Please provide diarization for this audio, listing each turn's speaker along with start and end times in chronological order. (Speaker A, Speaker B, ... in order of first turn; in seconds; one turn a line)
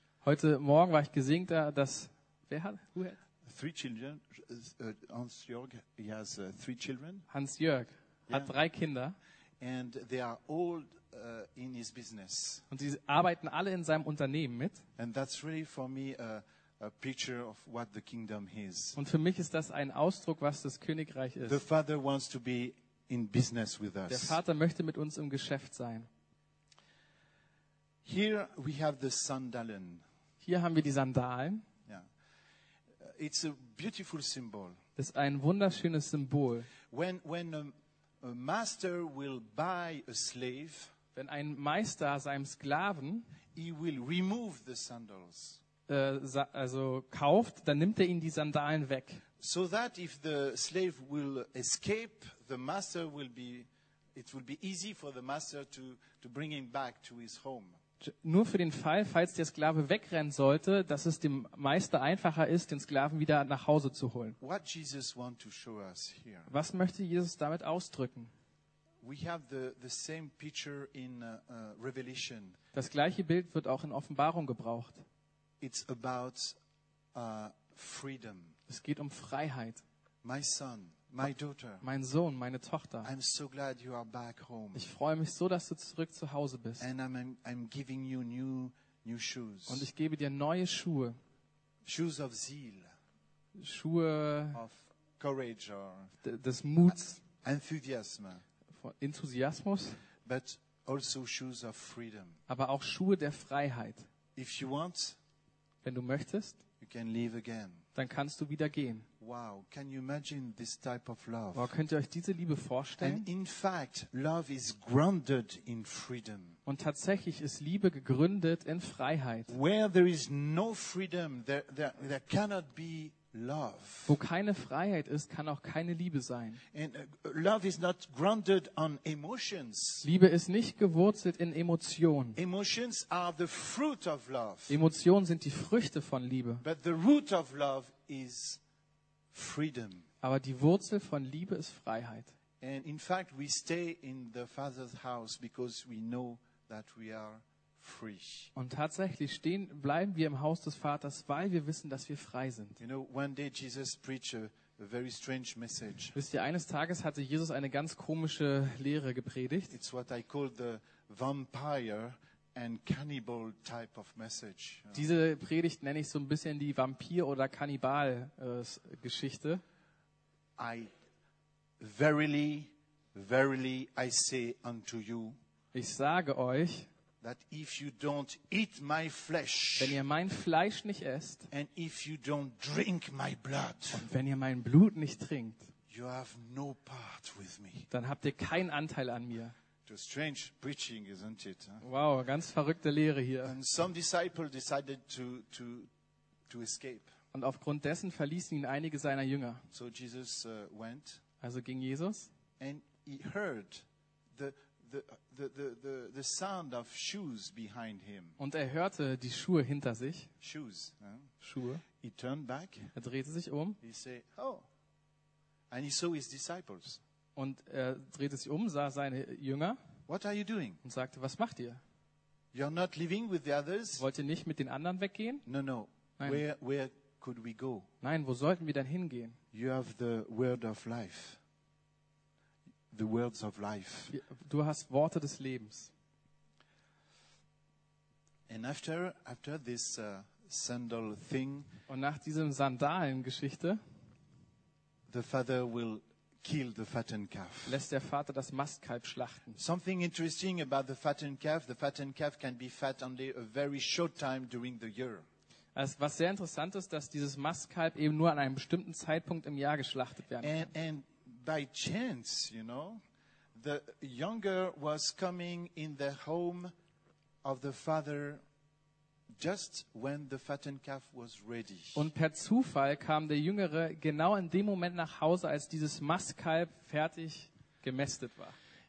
Speaker A: 0.2-3.2
Speaker B: 3.4-7.2
Speaker A: 7.3-9.2
Speaker B: 9.6-12.6
Speaker A: 12.7-14.8
Speaker B: 15.0-19.0
Speaker A: 19.0-21.6
Speaker B: 21.4-24.4
Speaker A: 24.1-26.1
Speaker B: 28.0-30.0
Speaker A: 30.4-31.6
Speaker B: 33.0-34.8
Speaker A: 35.0-36.7
Speaker B: 36.9-40.9
Speaker A: 41.1-43.3
Speaker B: 43.5-45.6
Speaker A: 45.9-49.2
Speaker B: 49.4-57.8
Speaker A: 58.0-64.4
Speaker B: 64.4-66.5
Speaker A: 66.5-68.3
Speaker B: 69.0-72.6
Speaker A: 72.7-75.0
Speaker B: 75.6-76.6
Speaker B: 77.1-78.6
Speaker A: 78.7-79.8
Speaker B: 80.2-81.8
Speaker A: 81.8-83.1
Speaker B: 83.0-84.9
Speaker A: 84.7-86.8
Speaker B: 86.8-89.9
Speaker A: 89.7-91.2
Speaker B: 91.8-92.9
Speaker A: 93.6-94.6
Speaker B: 94.5-96.2
Speaker A: 96.2-97.2
Speaker B: 96.8-98.4
Speaker A: 98.7-100.0
Speaker B: 100.2-102.4
Speaker A: 102.5-104.1
Speaker B: 104.3-105.2
Speaker A: 105.8-106.6
Speaker B: 106.8-107.8
Speaker A: 107.9-109.1
Speaker B: 109.2-111.7
Speaker A: 111.5-113.3
Speaker B: 113.0-116.6
Speaker A: 116.7-119.5
Speaker B: 119.5-124.2
Speaker A: 124.0-126.6
Speaker B: 126.7-130.1
Speaker A: 130.0-132.4
Speaker B: 132.3-134.8
Speaker A: 134.7-136.6
Speaker B: 136.6-138.6
Speaker B: 139.3-140.1
Speaker A: 140.2-142.3
Speaker B: 142.6-148.5
Speaker A: 148.5-152.8
Speaker B: 152.8-156.1
Speaker A: 156.1-159.7
Speaker B: 159.7-165.1
Speaker A: 164.9-169.6
Speaker B: 170.6-170.9
Speaker B: 171.8-175.4
Speaker A: 175.7-176.9
Speaker B: 177.2-180.0
Speaker A: 179.8-181.5
Speaker B: 181.5-184.1
Speaker A: 183.9-185.7
Speaker B: 185.9-187.9
Speaker A: 187.9-189.5
Speaker B: 189.8-191.8
Speaker A: 191.8-193.5
Speaker B: 193.4-195.9
Speaker B: 196.5-197.1
Speaker A: 197.3-199.6
Speaker B: 199.7-201.2
Speaker A: 201.4-202.3
Speaker B: 202.6-208.4
Speaker A: 208.4-210.3
Speaker B: 210.4-211.3
Speaker A: 211.4-211.8
Speaker B: 212.0-212.9
Speaker A: 212.9-213.8
Speaker B: 213.8-214.7
Speaker B: 215.7-217.0
Speaker A: 217.3-219.8
Speaker B: 220.1-220.8
Speaker A: 220.8-221.8
Speaker B: 222.5-224.0
Speaker A: 224.0-225.4
Speaker B: 225.4-227.9
Speaker A: 228.0-229.4
Speaker B: 229.5-231.4
Speaker B: 232.9-234.2
Speaker A: 234.1-235.9
Speaker B: 238.5-241.7
Speaker A: 241.9-243.8
Speaker B: 245.1-247.8
Speaker A: 247.7-249.6
Speaker B: 249.6-255.2
Speaker A: 255.7-260.7
Speaker B: 260.4-263.0
Speaker B: 263.5-266.7
Speaker B: 267.4-268.4
Speaker B: 269.4-272.1
Speaker A: 271.9-278.6